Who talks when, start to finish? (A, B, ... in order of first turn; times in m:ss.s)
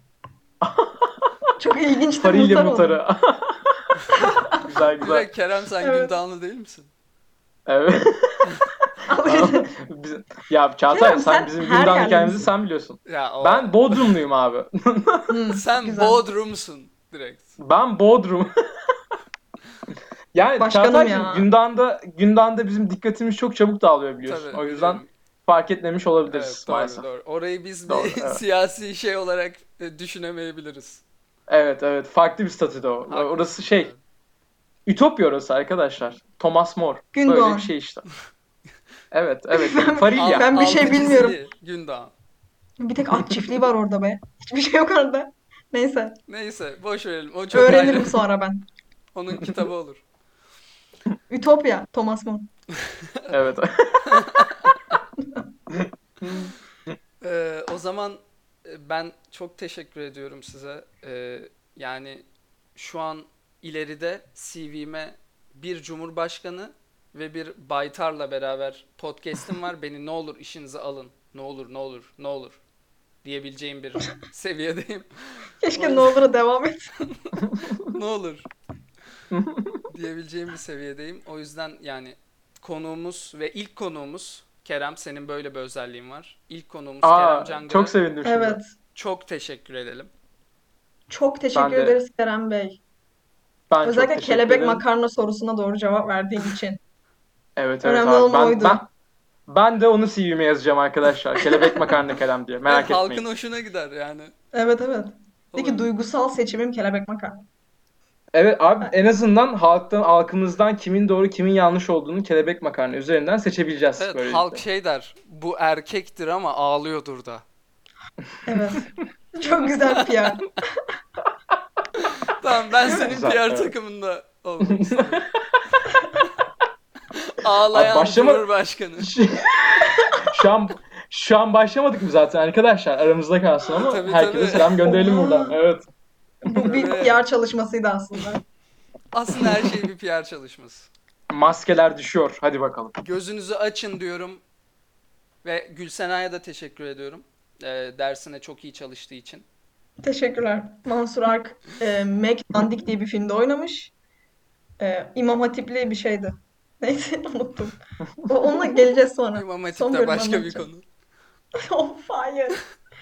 0:00.6-0:01.3 A
0:01.6-0:03.0 B
0:02.1-0:03.9 A
0:04.2-0:04.6 B
0:04.5-0:05.3 A
0:05.0-0:06.9 C
0:05.8-0:06.2 B
0:07.7-0:15.4 A
0:09.1-0:09.7 B
0:10.9-0:12.5 B
0:13.1-0:14.1 C
0:15.3-0:16.2 B
0:15.5-0:17.5 C
0:17.6-0:18.5 A
0:20.3-0:27.1 A
0:20.6-0:21.4 B
0:24.2-0:25.1 C
0:26.3-0:31.0 C
0:27.9-0:28.4 A
0:31.5-0:33.9 A
0:33.1-0:34.0 C
0:34.9-0:38.1 A
0:37.1-0:37.7 B
0:39.1-0:40.6 A
0:39.5-0:41.4 B
0:40.1-0:42.1 C
0:42.8-0:46.2 B
0:43.2-0:43.6 A
0:46.3-0:48.3 C
0:47.5-0:48.7 B
0:49.1-0:50.0 C
0:51.3-0:52.5 B
0:52.8-0:53.3 C
0:53.3-0:54.4 A
0:54.0-0:55.0 C
0:55.7-0:57.0 A
0:57.2-1:12.6 C
1:13.2-1:16.2 C
1:15.6-1:16.9 B
1:17.1-1:18.5 C
1:19.3-1:19.8 A
1:19.9-1:28.0 C
1:27.0-1:28.6 A
1:28.2-1:28.7 B
1:29.0-1:30.1 C
1:31.1-1:32.8 B
1:31.5-1:32.0 A
1:33.7-1:34.8 A
1:33.8-1:36.8 B
1:37.6-1:38.9 A
1:37.8-1:38.8 B
1:39.5-1:43.2 A
1:41.6-1:41.9 B
1:42.7-1:44.3 C
1:44.5-1:47.4 B
1:45.5-1:45.9 C
1:48.3-1:54.6 A
1:54.0-1:57.4 C
1:58.4-2:00.8 B
2:02.0-2:05.3 C
2:02.8-2:03.7 A
2:04.7-2:05.6 A
2:07.1-2:09.1 C
2:07.7-2:08.5 A
2:09.0-2:15.9 A
2:10.0-2:10.3 B
2:13.8-2:14.8 C
2:14.8-2:15.6 B
2:16.4-2:18.4 B
2:16.5-2:17.2 C
2:19.1-2:20.9 C
2:21.3-2:23.0 A
2:23.0-2:24.4 C
2:25.4-2:29.4 C
2:30.0-2:33.9 B
2:34.8-2:40.7 B
2:39.3-2:40.8 C
2:41.6-2:42.6 B